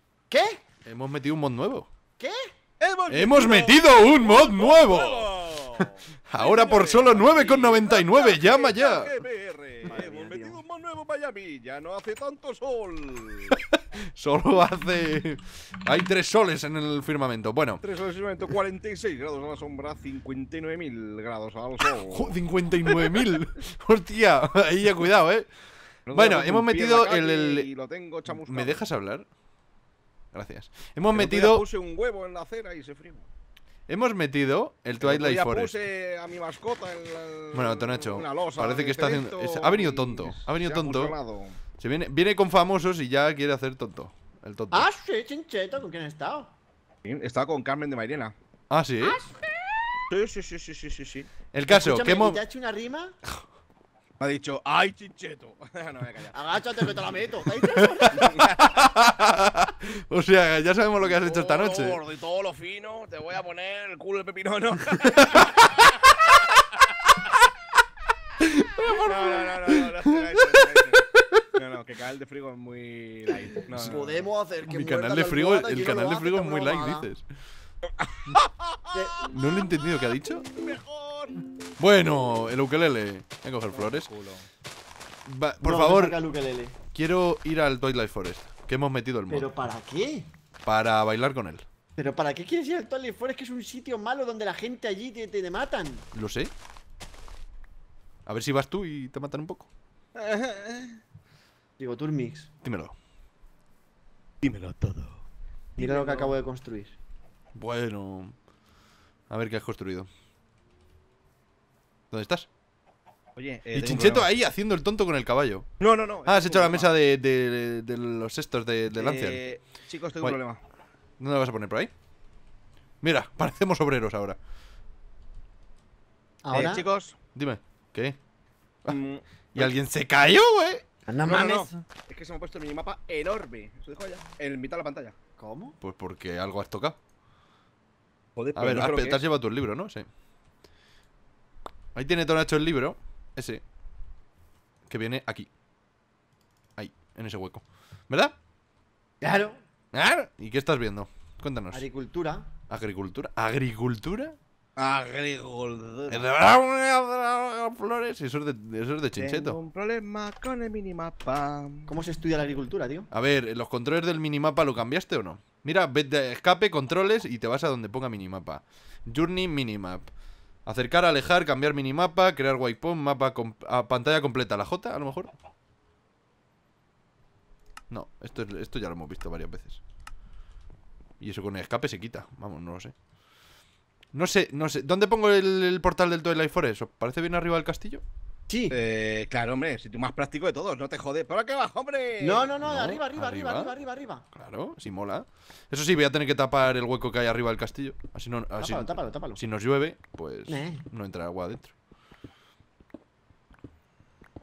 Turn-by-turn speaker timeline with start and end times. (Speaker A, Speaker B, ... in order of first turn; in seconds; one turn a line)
Speaker A: 0.3-0.6
Speaker B: 0.8-1.9
Speaker A: 2.2-2.5
Speaker C: 2.8-13.6
Speaker B: 3.1-9.2
Speaker A: 9.8-10.6
Speaker B: 13.5-17.8
Speaker C: 17.8-22.4
Speaker B: 22.1-25.5
Speaker C: 26.1-28.8
Speaker B: 26.1-27.7
Speaker B: 28.3-29.3
Speaker B: 30.3-31.6
Speaker C: 31.1-33.3
Speaker B: 33.9-35.7
Speaker C: 35.0-41.6
Speaker B: 37.5-41.1
Speaker B: 41.8-44.9
Speaker A: 44.7-46.5
Speaker C: 47.0-48.3
Speaker B: 48.7-49.2
Speaker C: 50.1-51.3
Speaker B: 51.5-52.4
Speaker A: 51.7-53.1
Speaker C: 54.2-56.8
Speaker A: 56.3-58.4
Speaker B: 57.7-62.0
Speaker C: 58.1-58.7
Speaker C: 61.0-67.2
Speaker B: 65.2-66.0
Speaker B: 68.4-71.4
Speaker C: 68.8-74.1
Speaker A: 73.7-77.1
Speaker B: 74.6-77.2
Speaker C: 78.0-79.4
Speaker A: 78.9-79.3
Speaker B: 79.3-80.5
Speaker C: 80.5-81.4
Speaker B: 81.8-84.1
Speaker C: 83.7-84.5
Speaker B: 85.2-86.2
Speaker A: 85.6-86.8
Speaker B: 86.9-89.5
Speaker A: 89.3-90.3
Speaker B: 90.7-91.7
Speaker A: 92.0-96.0
Speaker B: 96.1-96.5
Speaker B: 98.2-99.7
Speaker C: 100.1-101.0
Speaker A: 101.8-102.5
Speaker B: 102.6-102.9
Speaker C: 104.4-105.2
Speaker C: 105.8-106.4
Speaker A: 105.8-106.9
Speaker B: 107.5-108.3
Speaker B: 109.3-110.1
Speaker B: 112.1-112.5
Speaker C: 113.3-114.3
Speaker B: 113.7-115.7
Speaker C: 115.8-116.9
Speaker B: 116.2-119.4
Speaker C: 119.0-120.6
Speaker B: 121.2-121.9
Speaker B: 123.0-124.4
Speaker A: 126.4-126.8
Speaker C: 126.5-127.2
Speaker B: 127.3-128.2
Speaker C: 128.9-129.7
Speaker B: 129.5-130.8
Speaker A: 131.1-131.7
Speaker C: 131.2-135.2
Speaker A: 135.4-135.8
Speaker B: 135.8-137.0
Speaker C: 138.3-139.2
Speaker B: 138.5-140.1
Speaker B: 141.9-143.6
Speaker B: 144.9-145.5
Speaker B: 146.8-148.3
Speaker A: 149.2-149.6
Speaker B: 149.9-151.8
Speaker A: 151.7-152.5
Speaker B: 152.7-154.4
Speaker C: 154.8-156.2
Speaker B: 156.1-159.6
Speaker C: 159.2-161.9
Speaker A: 161.9-163.1
Speaker B: 163.1-170.1
Speaker B: 170.7-175.3
Speaker B: 177.9-179.8
Speaker B: 181.2-182.9
Speaker B: 184.1-188.0
Speaker A: 188.5-188.8
Speaker C: 188.7-193.0
Speaker A: 192.2-194.2
Speaker B: 192.6-193.7
Speaker B: 194.3-201.7
Speaker A: 198.6-199.4
Speaker A: 200.5-200.8